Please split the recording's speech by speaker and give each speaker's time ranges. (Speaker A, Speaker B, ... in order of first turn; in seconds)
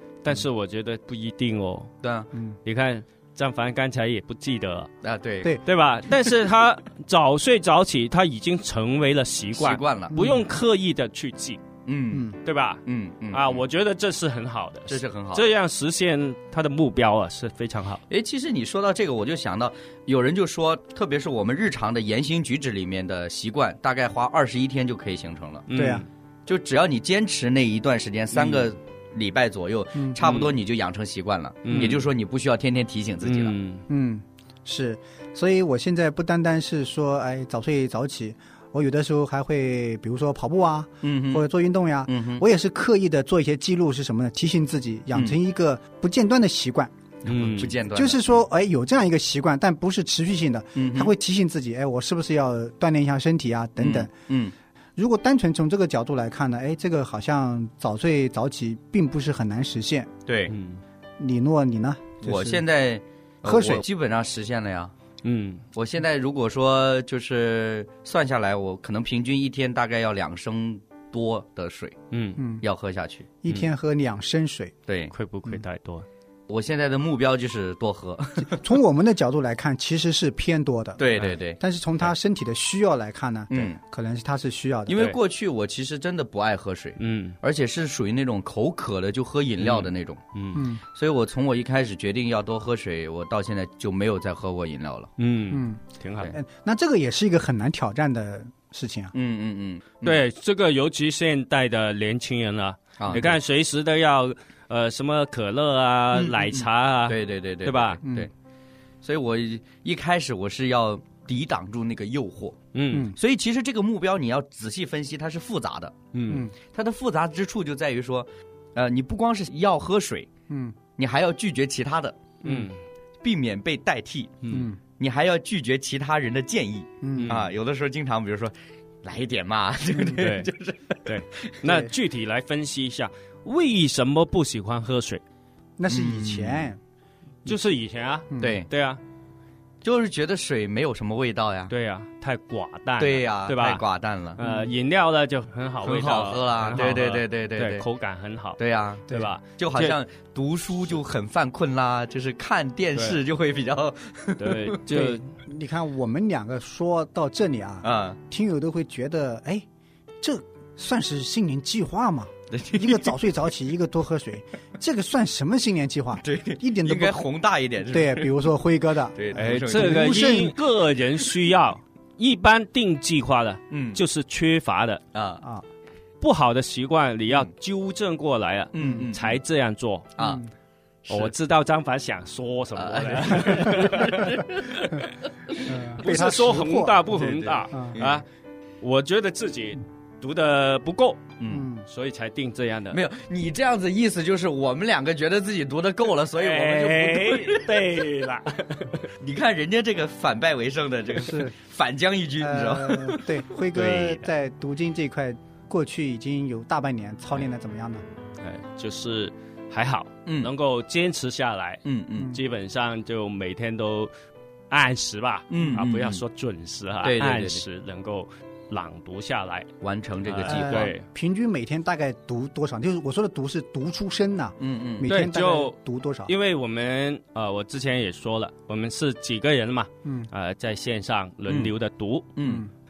Speaker A: 0.2-1.9, 2.6-4.9, 5.6-11.6, 12.4-18.0, 25.7-26.1, 28.3-28.7, 30.2-30.5, 31.6-32.0, 33.2-33.8, 47.2-47.7, 60.5-60.8, 65.2-65.6, 72.1-72.4, 75.1-76.0, 87.0-87.4, 89.6-90.6, 95.2-96.3, 100.0-108.0, 112.7-113.1, 116.1-116.5, 122.4-122.8, 127.1-127.5, 130.1-130.5, 131.0-135.2, 137.4-139.0, 141.7-143.8, 144.4-149.9, 154.4-155.3, 169.3-175.0, 176.2-180.1, 181.1-184.3, 186.0-188.2, 188.8-191.2, 191.9-193.0, 196.4-199.0, 203.7-204.2, 208.4-214.1, 214.7-219.7, 220.2-221.1, 225.1-232.3
Speaker B: 2.0-2.3, 5.0-5.6, 9.5-10.2, 11.8-12.3, 12.8-13.6, 14.9-15.5, 18.1-25.6, 26.5-33.5, 41.0-41.4, 42.1-42.4, 47.3-48.4, 50.8-51.1, 53.8-54.5, 60.3-60.5, 62.2-64.9, 65.7-72.0, 72.6-73.3, 74.9-75.1, 76.5-78.6, 81.0-81.6, 83.5-83.8, 84.9-90.2, 90.9-95.1, 99.1-100.2, 103.0-103.3, 106.1-108.3, 109.0-112.6, 113.1-115.9, 116.5-120.3, 121.0-122.2, 123.2-131.5, 135.9-136.7, 138.4-138.7, 139.8-141.7, 143.0-144.4, 145.8-147.9, 148.6-154.8, 157.8-158.2, 162.5-163.1, 166.2-168.3, 169.1-170.4, 173.7-174.0, 175.1-175.4, 178.7-179.4, 180.2-180.4, 181.0-181.3, 182.8-186.4, 187.1-188.2, 191.4-191.7, 192.9-197.8, 199.2-203.4, 210.2-210.5, 211.8-212.3, 215.5-216.2, 217.0-217.6, 219.8-220.9, 224.6-225.1, 231.5-231.7, 232.3-232.7
Speaker C: 10.1-10.4, 12.1-12.4, 25.7-26.1, 29.9-30.2, 33.9-46.9, 47.9-54.1, 55.0-60.1, 61.2-62.6, 63.4-63.8, 72.4-72.6, 73.4-74.7, 78.4-85.1, 90.5-90.8, 95.5-95.8, 96.3-99.1, 120.5-120.8, 124.5-124.8, 127.0-127.3, 135.8-136.8, 138.3-138.6, 144.4-144.7, 154.9-159.7, 160.2-167.2, 167.8-170.6, 178.8-179.1, 180.2-180.5, 185.6-187.1, 187.7-188.0, 191.5-191.8, 201.1-201.5, 202.4-208.0, 220.4-226.3, 230.0-230.3, 232.4-232.7